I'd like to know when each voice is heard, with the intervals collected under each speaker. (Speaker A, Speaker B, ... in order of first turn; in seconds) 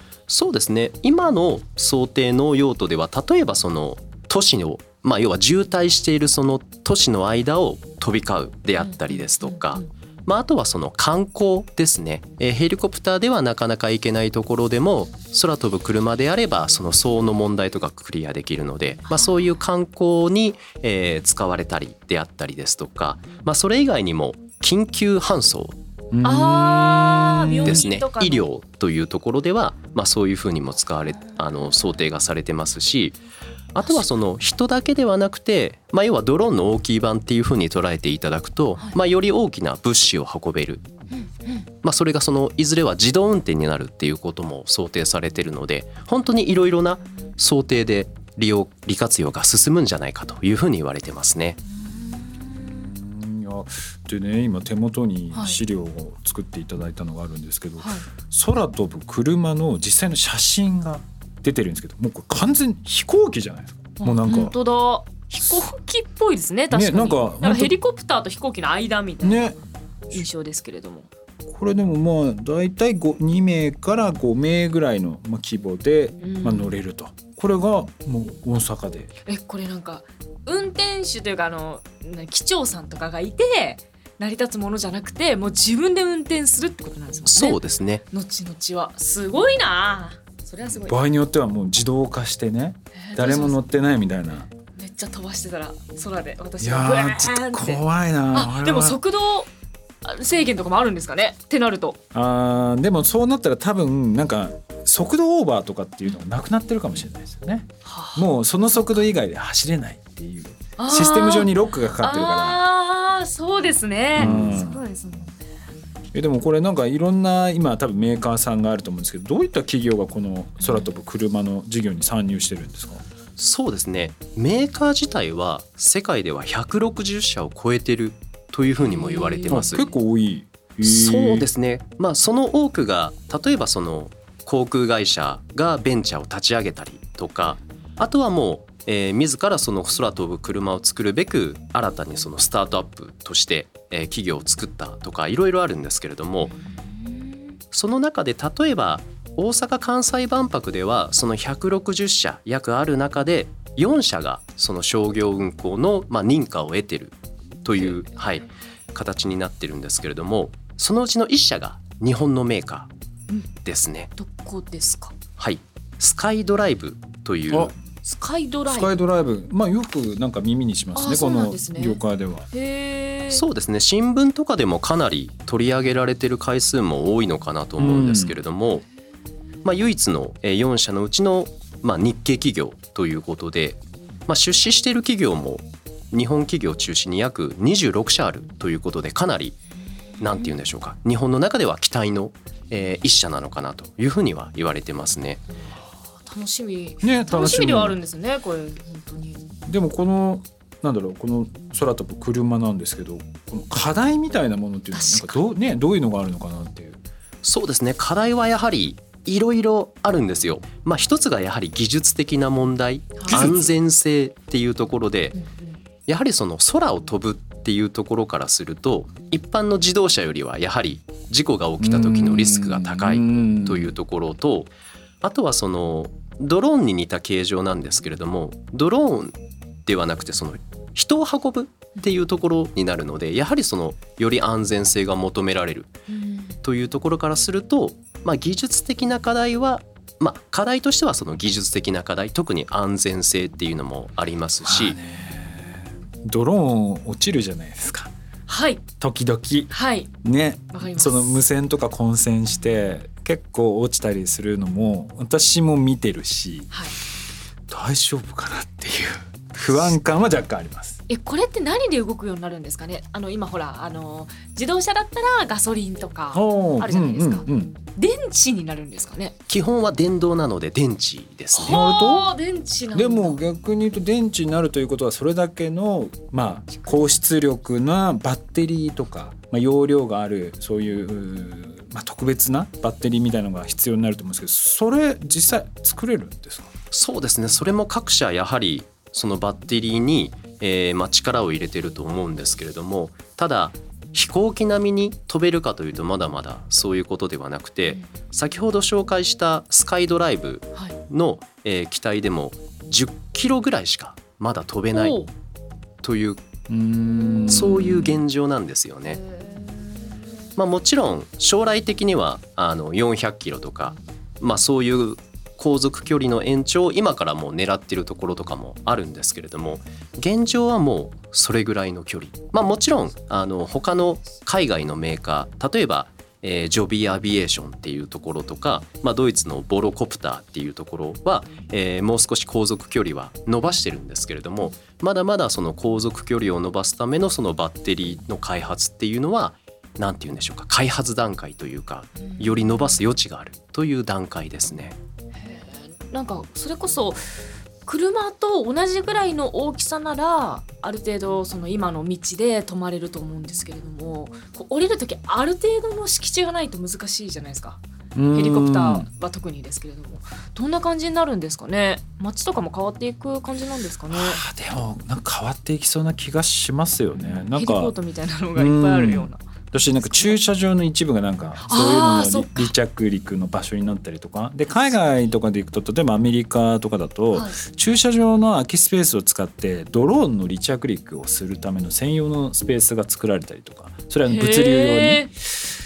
Speaker A: 0.3-25.8, 27.6-33.2, 33.7-40.8, 41.8-51.6, 87.3-88.0, 123.4-129.9, 130.8-146.5, 147.7-162.9, 163.6-164.1, 165.4-167.8, 173.3-178.8, 179.6-189.6, 190.2-195.4, 207.4-215.3, 216.1-224.7, 225.2-229.3, 229.9-235.9, 236.6-245.0, 269.5-271.8, 286.9-305.2, 306.0-306.4, 307.5-309.2, 310.6-345.0
Speaker B: 8.8-9.9, 19.1-19.6, 26.2-28.4, 33.8-34.1, 41.1-41.7, 51.7-52.7, 57.8-58.1, 64.0-69.5, 70.1-71.1, 76.2-76.7, 79.3-87.6, 88.1-91.0, 93.1-93.6, 94.8-97.8, 98.3-99.5, 100.0-102.0, 107.8-108.3, 110.8-111.5, 112.0-115.4, 128.8-129.6, 146.5-147.4, 164.2-165.2, 168.0-168.9, 170.9-172.0, 172.5-173.4, 190.2-190.5, 195.6-199.4, 204.9-205.4, 215.3-215.8, 236.1-236.6, 248.5-248.8, 249.7-250.1, 250.7-251.4, 256.7-256.9, 261.1-269.4, 271.6-273.4, 304.9-305.3, 309.2-309.9, 342.3-342.8, 345.4-347.2, 347.9-357.8, 358.3-364.4, 367.2-369.4, 370.0-370.4, 371.6-372.7, 384.3-385.3
Speaker C: 26.1-27.8, 52.8-64.6, 66.7-67.8, 69.2-69.6, 71.5-79.1, 90.6-94.5, 96.6-99.0, 102.1-112.6, 114.2-114.8, 116.1-123.0, 129.5-131.5, 168.7-172.5, 177.8-178.3, 197.0-198.0, 199.7-207.0, 213.3-213.8, 221.8-223.9, 244.6-248.1, 249.0-256.7, 257.7-261.0, 266.3-267.8, 271.6-272.3, 272.9-286.7, 306.7-308.2, 358.1-359.1, 364.1-367.9, 368.6-385.6